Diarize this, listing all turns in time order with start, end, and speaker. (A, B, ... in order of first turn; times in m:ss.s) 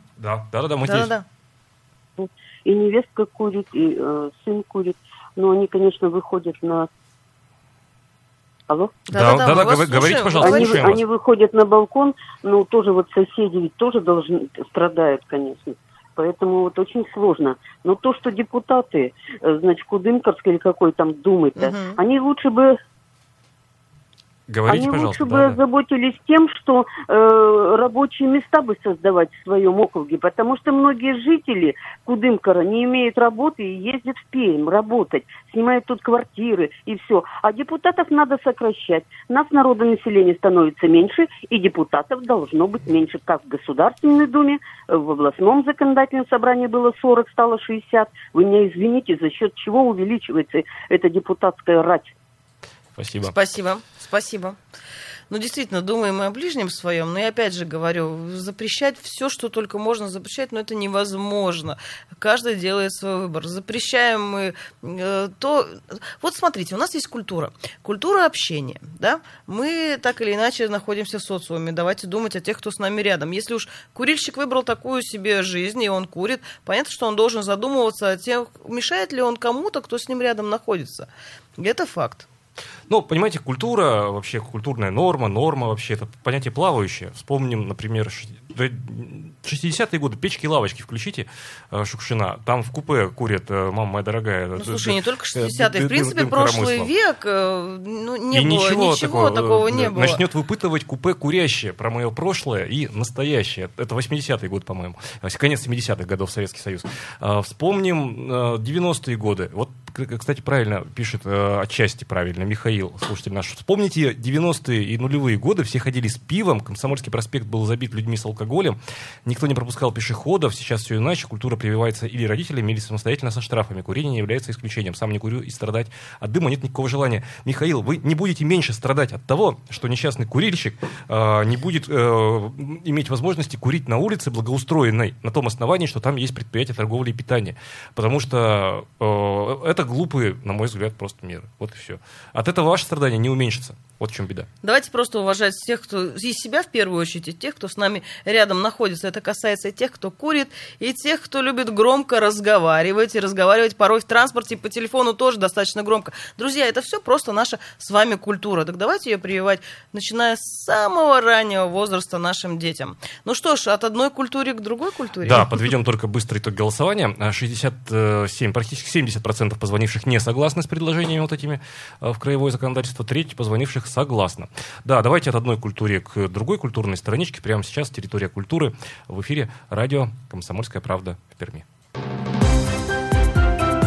0:00.2-0:01.1 A
0:00.8-0:01.2 B
0:02.2-0:06.9 C
0:08.7-0:09.0 C
0:09.1-0:11.0 A
0:09.1-0:10.8 B
0:10.4-0:22.7 C
0:21.6-0:22.0 B
0:24.5-0:25.6 A
0:24.7-0:52.1 C
0:53.0-0:53.3 A
0:53.2-0:54.6 B
0:55.3-1:22.2 B
1:22.9-1:36.9 A
1:34.5-1:40.2 B
1:38.3-2:24.5 A
2:24.6-2:45.6 B
2:45.2-3:01.6 A